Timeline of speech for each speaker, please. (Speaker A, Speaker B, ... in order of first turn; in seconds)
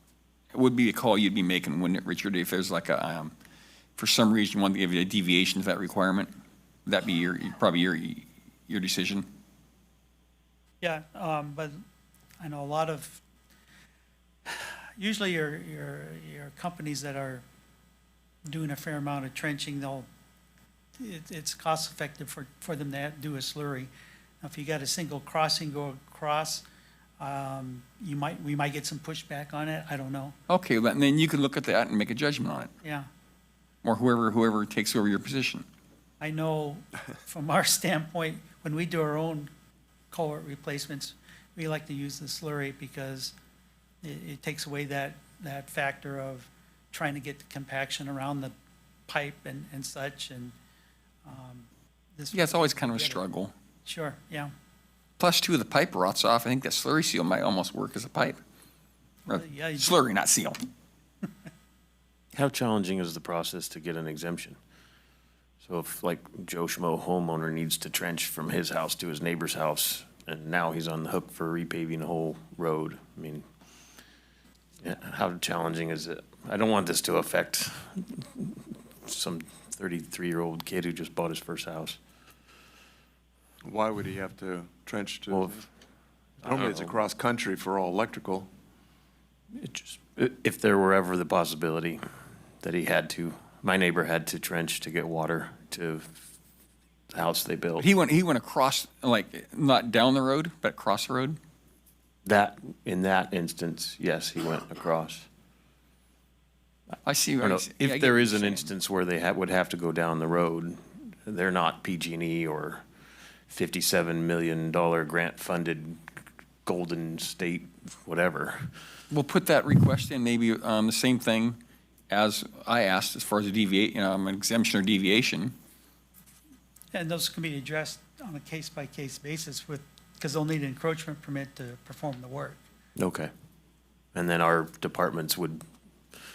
Speaker A: 0.5-3.3, 4.0-6.3, 6.8-9.2, 30.5-32.7, 33.8-35.6, 52.3-53.5, 55.2-58.4, 59.2-60.6, 97.8-101.4, 107.0-108.7, 119.1-121.6, 122.1-125.5
Speaker B: 10.8-11.8, 12.4-13.2, 14.4-17.4, 18.4-20.1, 21.0-26.6, 27.2-30.4, 32.8-33.1, 36.2-39.5, 40.1-43.3, 44.0-48.5, 49.1-50.5, 51.2-53.2, 53.8-54.5, 59.3-59.9, 126.9-132.6
Speaker C: 62.3-64.6, 65.6-73.4, 74.8-82.0, 85.3-85.6, 86.5-86.8, 89.5-92.0, 92.6-96.2, 97.1-97.9, 102.2-105.2, 107.4-112.8, 113.5-116.1, 116.6-118.7, 132.9-133.3, 134.1-135.6
Speaker D: 83.6-85.7, 86.4-88.5